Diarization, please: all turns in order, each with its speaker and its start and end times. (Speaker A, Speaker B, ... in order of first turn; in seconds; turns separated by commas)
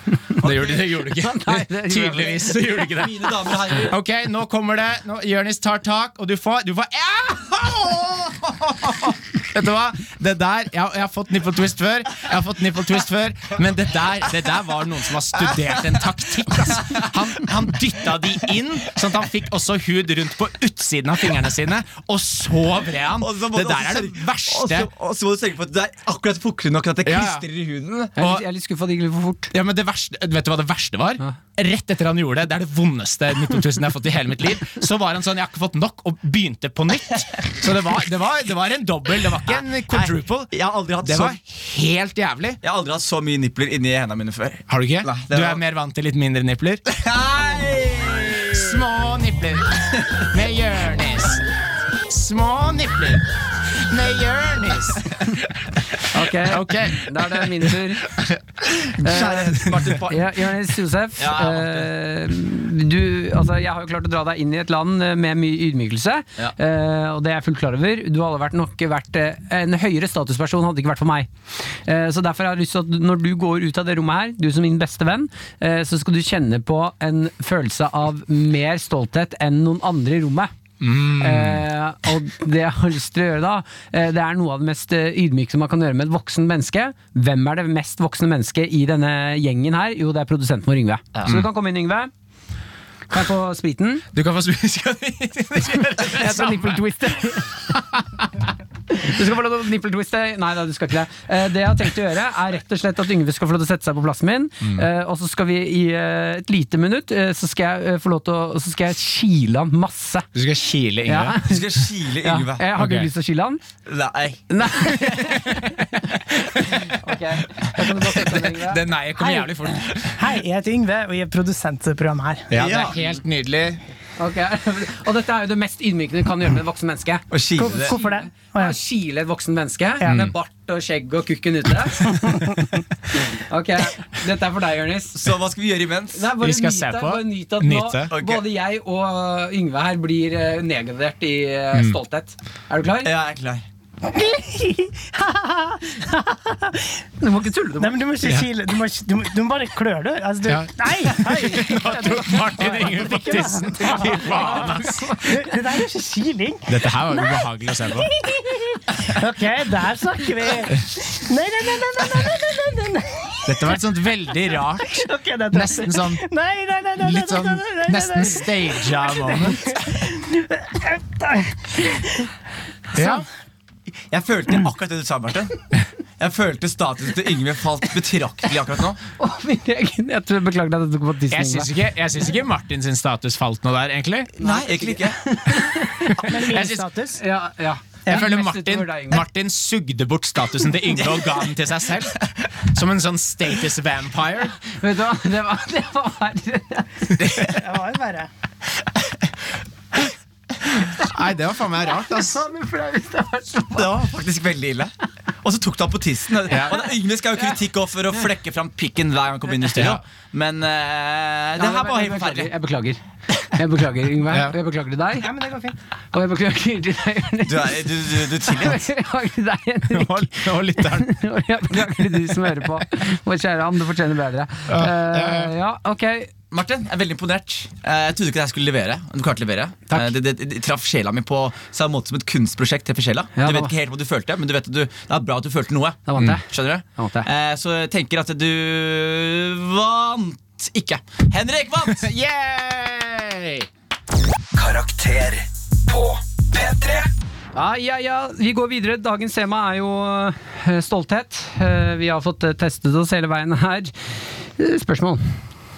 Speaker A: 0.4-8.3, Speaker B: 0.4-1.0, Speaker C: 0.9-2.6, Speaker B: 2.8-4.0, Speaker B: 8.2-8.9, Speaker A: 9.5-24.9, Speaker B: 23.2-28.1, Speaker A: 27.1-27.5, Speaker C: 28.2-29.5, Speaker A: 28.2-28.4, Speaker A: 29.5-40.5, Speaker B: 39.5-41.4, Speaker A: 41.0-42.6, Speaker B: 42.6-45.6, Speaker A: 44.7-46.9, Speaker B: 46.9-48.8, Speaker A: 48.5-51.5, Speaker A: 52.1-60.1, Speaker C: 56.1-58.2, Speaker C: 59.0-80.5, Speaker B: 59.0-60.2, Speaker B: 61.2-61.9, Speaker A: 80.8-81.7, Speaker C: 81.1-92.1, Speaker A: 91.2-91.5, Speaker C: 93.1-94.0, Speaker A: 94.1-96.9, Speaker C: 96.1-97.6, Speaker A: 97.7-98.3, Speaker C: 98.9-110.3, Speaker A: 110.3-111.4, Speaker C: 111.0-113.6, Speaker B: 111.5-112.7, Speaker A: 112.8-113.1, Speaker B: 113.9-114.4, Speaker C: 114.5-116.0, Speaker A: 115.2-116.9, Speaker C: 116.9-118.8, Speaker A: 117.9-120.3, Speaker D: 119.2-122.5, Speaker A: 122.5-123.8, Speaker B: 122.5-123.0, Speaker C: 124.2-135.3, Speaker B: 127.3-127.9, Speaker D: 127.6-128.8, Speaker A: 130.1-130.3, Speaker B: 135.2-136.3, Speaker C: 136.1-143.1, Speaker A: 136.4-138.1, Speaker B: 138.1-138.4, Speaker B: 143.0-143.7, Speaker D: 144.0-147.0, Speaker C: 147.2-148.0, Speaker D: 147.8-163.8, Speaker A: 150.5-155.3, Speaker C: 153.8-155.2, Speaker A: 156.7-158.1, Speaker A: 163.5-166.2, Speaker D: 164.8-172.3, Speaker A: 167.0-169.8, Speaker A: 172.9-173.3, Speaker B: 174.1-175.6, Speaker B: 176.2-179.0, Speaker C: 179.2-181.7, Speaker A: 181.3-184.4, Speaker B: 184.4-185.2, Speaker C: 184.4-186.3, Speaker D: 186.2-187.2, Speaker A: 186.3-186.9, Speaker C: 187.2-189.2, Speaker A: 188.1-194.6, Speaker C: 194.7-197.2, Speaker D: 197.4-198.3, Speaker A: 201.0-202.4, Speaker C: 202.0-203.9, Speaker B: 203.8-212.5, Speaker A: 206.5-206.8, Speaker A: 209.7-210.0, Speaker C: 211.6-215.3, Speaker D: 215.2-215.8, Speaker C: 216.1-226.3, Speaker B: 217.5-218.8, Speaker A: 219.9-221.2, Speaker A: 221.7-222.5, Speaker A: 224.7-225.5, Speaker B: 226.5-242.1, Speaker C: 233.4-233.7, Speaker C: 236.1-236.4, Speaker C: 237.0-237.3, Speaker A: 241.9-243.7, Speaker E: 244.5-247.1, Speaker C: 247.6-255.4